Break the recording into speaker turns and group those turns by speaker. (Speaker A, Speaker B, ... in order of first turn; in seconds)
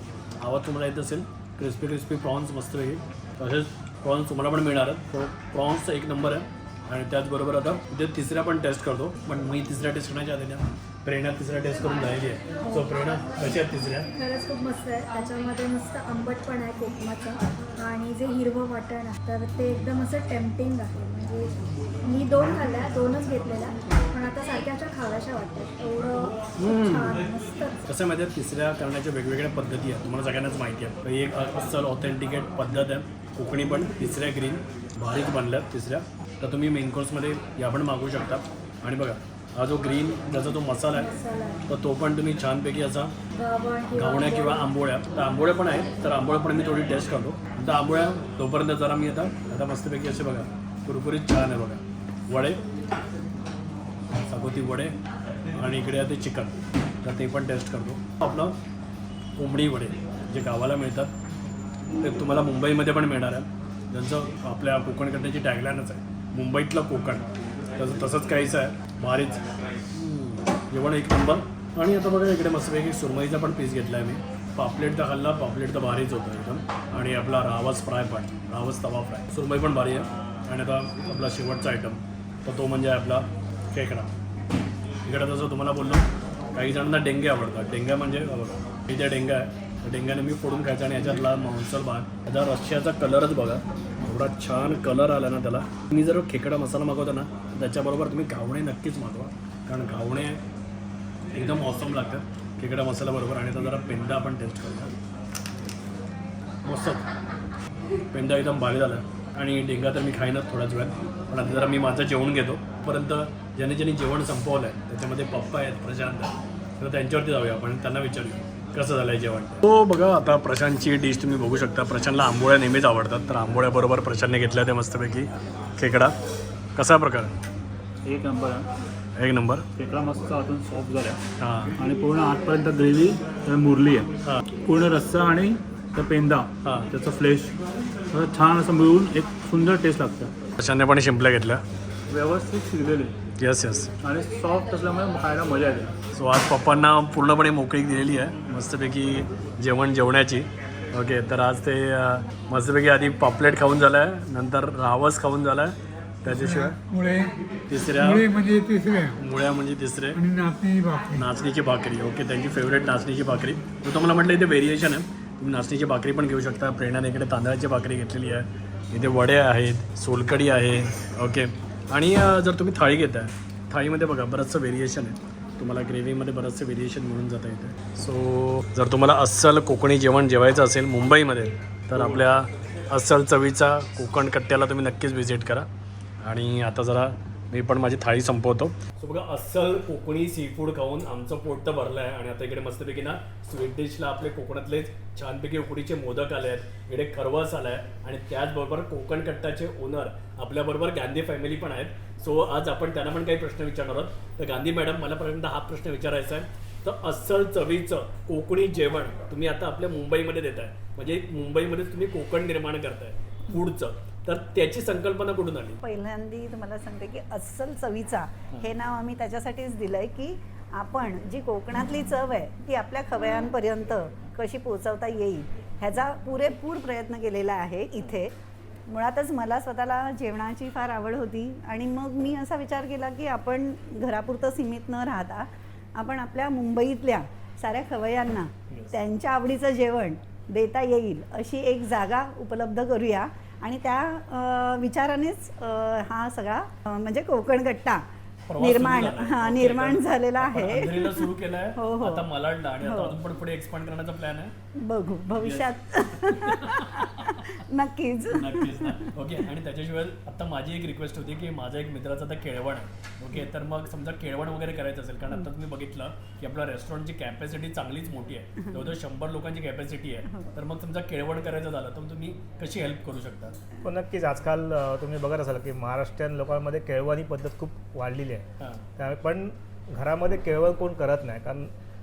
Speaker A: 0.4-14.1, 26.6-27.2, 27.9-41.1, 41.7-43.1, 43.9-52.6, 54.3-55.0, 55.5-58.6, 59.4-61.1, 62.0-84.1, 85.0-100.4, 101.3-105.0, 106.6-107.1, 108.1-126.2, 126.8-127.3, 129.2-129.7, 131.4-131.8, 136.6-136.9, 140.6-141.6, 143.4-143.9, 146.1-156.8, 157.7-158.3, 159.2-160.2, 161.1-185.7, 186.2-215.8, 238.7-239.0, 248.5-254.5, 255.4-257.5, 258.3-273.6, 278.6-278.9
Speaker B: 12.7-13.2, 14.1-27.8, 40.9-41.6, 43.3-44.7
Speaker C: 128.1-128.7, 129.7-131.2, 131.8-134.1, 134.6-137.6, 138.1-140.3, 142.1-143.1, 144.0-146.0
Speaker D: 156.3-157.3, 158.0-159.2, 160.2-161.2
Speaker E: 215.8-228.3, 228.9-248.0, 248.6-252.3, 252.8-253.2, 254.8-259.1
Speaker F: 273.8-278.4, 279.0-281.7